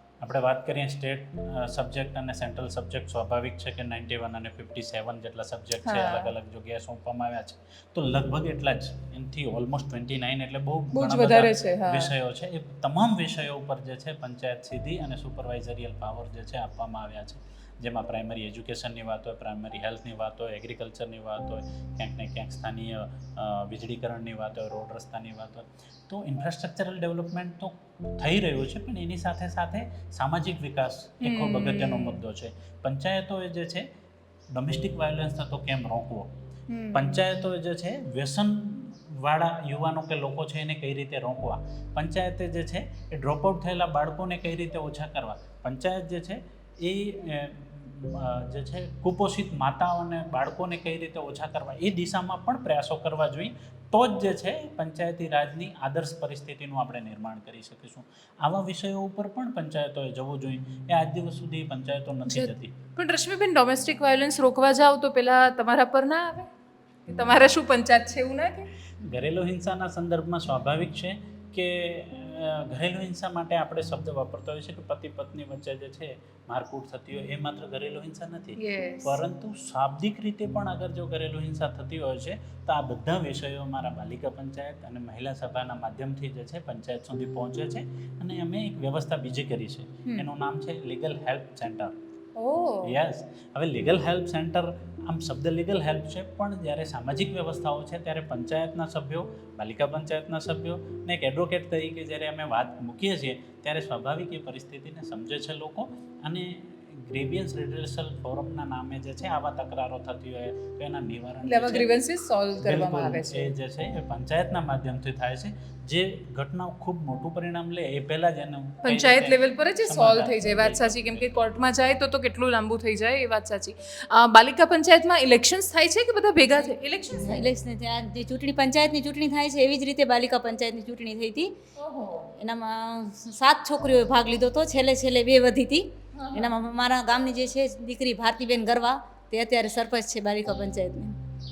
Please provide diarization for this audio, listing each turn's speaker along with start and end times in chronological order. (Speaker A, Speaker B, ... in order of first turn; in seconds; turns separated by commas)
Speaker A: 0.2-33.9, Speaker B: 5.8-6.3, Speaker B: 10.9-12.1, Speaker B: 31.2-32.2, Speaker A: 34.5-36.3, Speaker B: 36.7-37.2, Speaker A: 36.9-62.8, Speaker B: 62.3-66.5, Speaker B: 67.1-68.7, Speaker A: 69.0-92.0, Speaker B: 78.6-79.2, Speaker B: 92.4-92.9, Speaker A: 92.8-111.9, Speaker B: 111.5-113.5, Speaker A: 112.6-121.5, Speaker B: 118.8-127.5, Speaker C: 127.1-131.6, Speaker B: 131.8-132.3, Speaker C: 132.4-141.2, Speaker B: 136.1-136.5